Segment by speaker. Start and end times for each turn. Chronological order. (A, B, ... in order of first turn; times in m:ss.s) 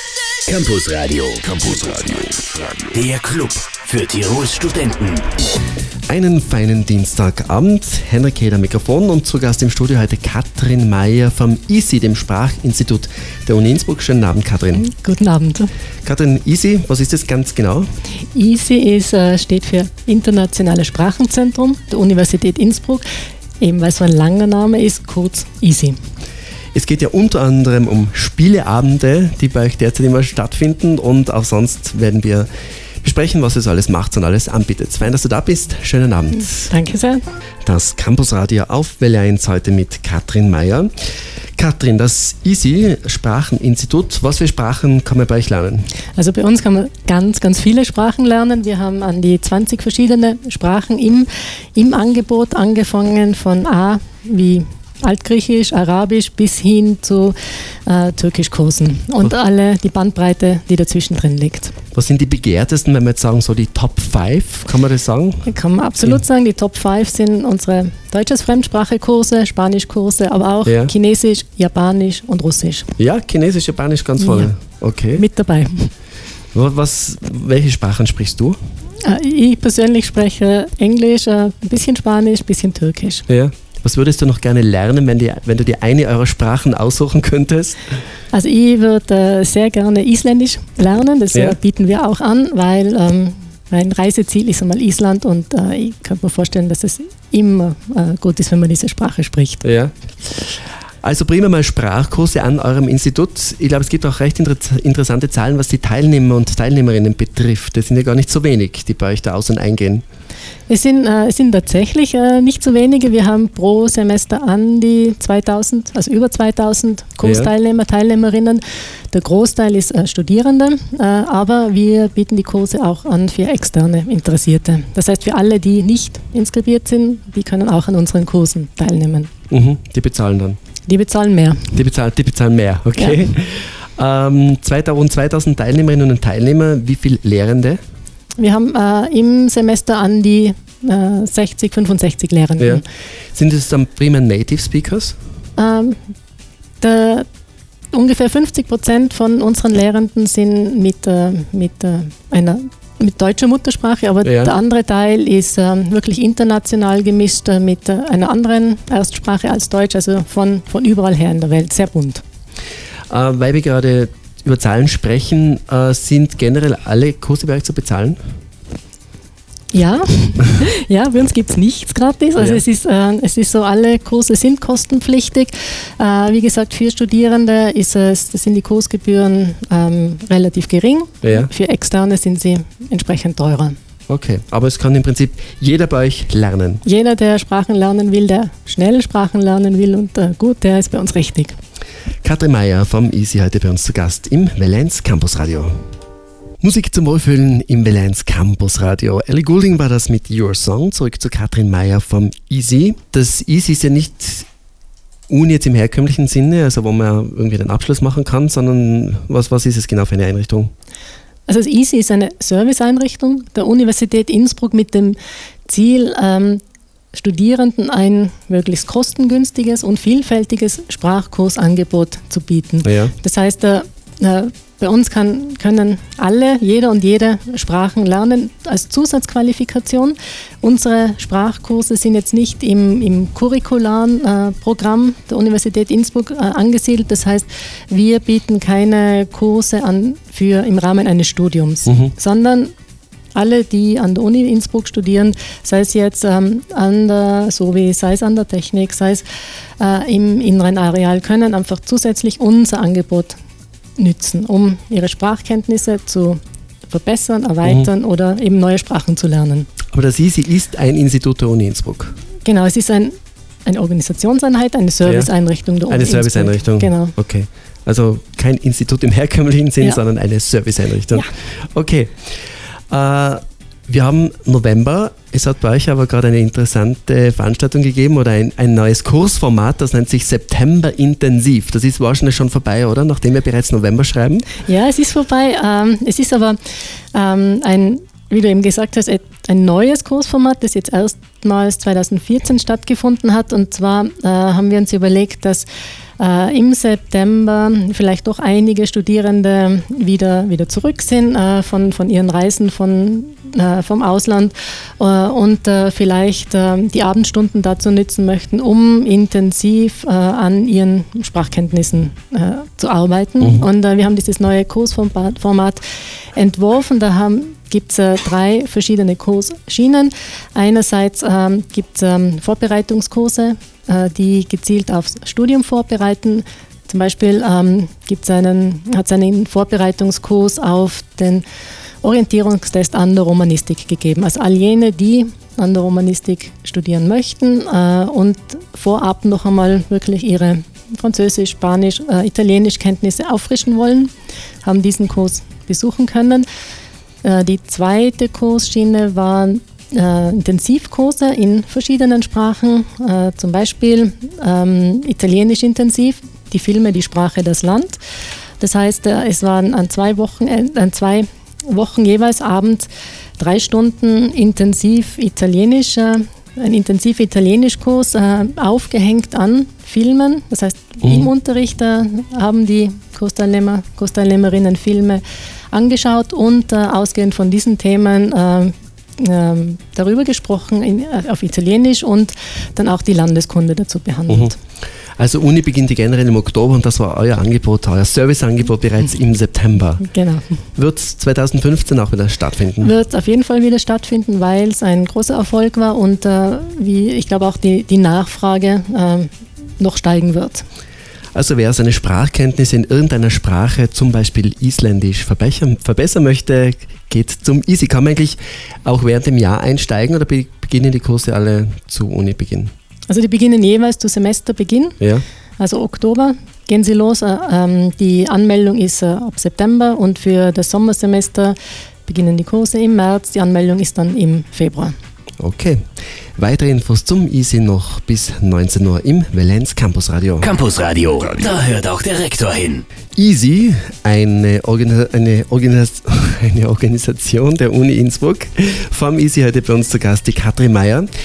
0:00.5-0:02.0 A
0:02.8-0:05.3 A
0:06.1-0:14.9 B
0:14.8-0:15.7 C
0:16.0-0:17.9 B
0:18.3-0:23.0 C
0:23.6-0:26.0 C
0:26.7-0:32.5 B
0:33.0-0:36.7 B
0:36.7-0:37.2 C
0:37.6-0:40.9 B
0:41.6-0:45.9 B
0:46.2-1:01.7 C
1:01.9-1:05.5 B
1:05.4-1:12.9 C
1:10.6-1:10.9 B
1:13.0-1:15.2 B
1:14.2-1:14.5 C
1:15.2-1:15.9 C
1:16.5-1:18.6 B
1:19.0-1:23.2 C
1:23.3-1:28.0 B
1:28.3-1:39.6 C
1:39.6-1:50.0 B
1:50.7-2:09.3 C
1:57.2-1:57.5 B
2:09.5-2:10.6 B
2:10.8-2:11.8 C
2:11.7-2:17.8 B
2:13.0-2:13.2 C
2:18.4-2:22.8 C
2:22.6-2:25.2 B
2:25.6-2:26.0 C
2:26.8-2:27.3 C
2:27.9-2:42.2 C
2:34.2-2:34.5 B
2:43.1-2:48.2 B
2:49.7-3:03.8 C
3:01.2-3:01.5 B
3:04.1-3:06.8 B
3:06.8-3:11.6 C
3:12.2-3:15.8 B
3:16.6-3:24.5 B
3:25.3-3:30.7 B
3:31.5-3:36.6 C
3:37.1-4:02.7 C
3:42.8-3:43.1 B
4:01.9-4:02.1 B
4:03.4-4:09.2 C
4:09.8-4:13.4 C
4:14.0-4:19.7 C
4:19.9-4:22.2 B
4:22.4-4:23.1 C
4:23.6-4:27.1 C
4:25.0-4:25.3 B
4:25.9-4:32.3 B
4:32.9-4:44.5 B
4:44.6-4:46.6 C
4:47.1-4:55.7 C
4:56.2-5:15.8 C
5:13.4-5:13.6 B
5:16.4-5:31.4 C
5:32.0-5:44.1 C
5:44.6-5:46.4 C
5:47.2-5:58.0 C
5:58.6-6:24.5 C
6:11.0-6:11.3 B
6:25.2-6:30.0 B
6:30.0-6:30.4 C
6:30.8-6:32.9 B
6:32.8-6:40.6 C
6:41.3-6:52.7 B
6:53.1-6:55.0 C
6:55.6-7:04.9 C
7:05.4-7:05.8 B
7:06.4-7:10.5 B
7:10.4-7:12.8 A
7:13.2-7:21.1 B